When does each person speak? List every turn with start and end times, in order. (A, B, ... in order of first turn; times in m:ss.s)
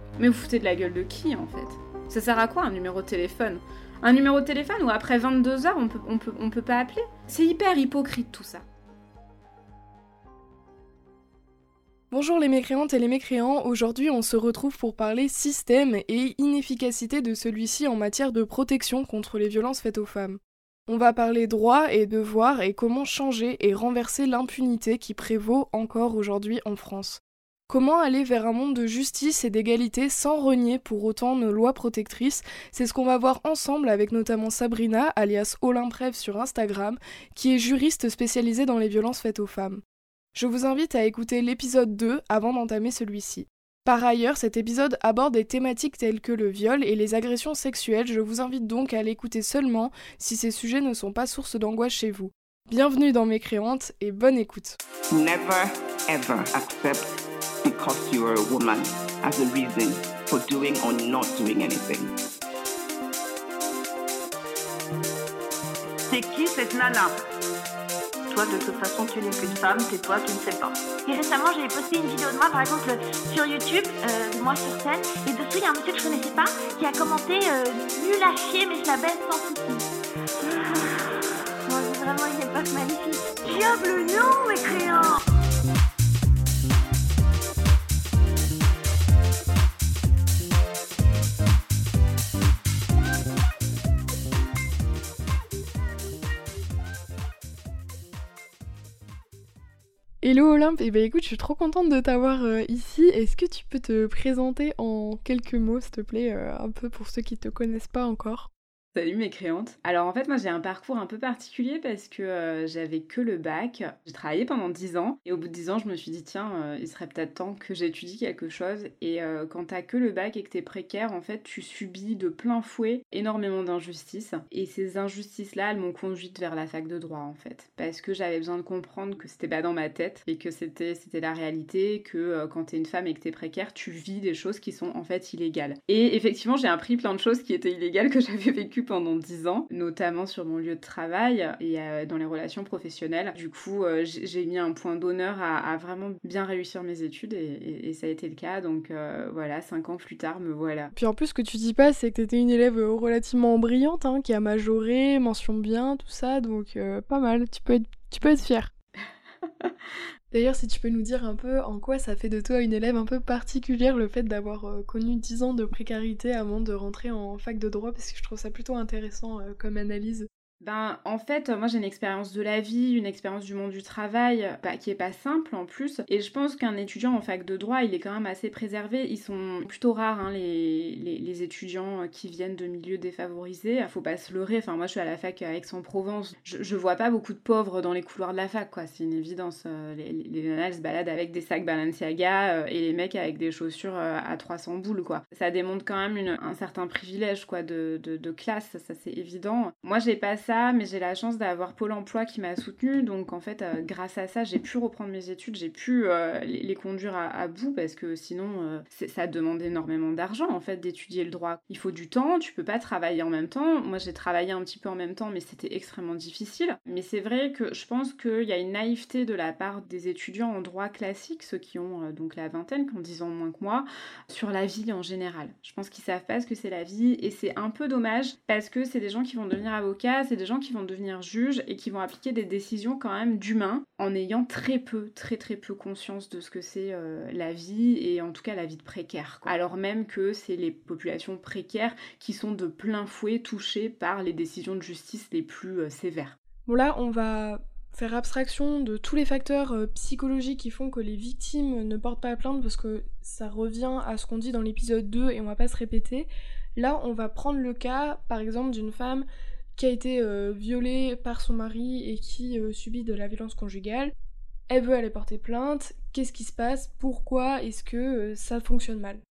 0:00.2-0:08.6 A
0:12.1-0:39.8 B
0:40.3-0:54.8 B
0:55.1-0:57.1 C
0:57.6-1:02.1 C
1:05.9-1:07.1 D
1:08.3-1:19.9 E
1:08.5-1:09.8 D
1:20.4-1:25.2 E
1:40.2-1:48.5 B
1:48.9-2:30.9 A
2:30.9-2:38.7 B
2:40.3-2:50.3 B
2:50.6-4:06.4 A
4:06.6-4:24.1 B
4:24.7-4:29.2 B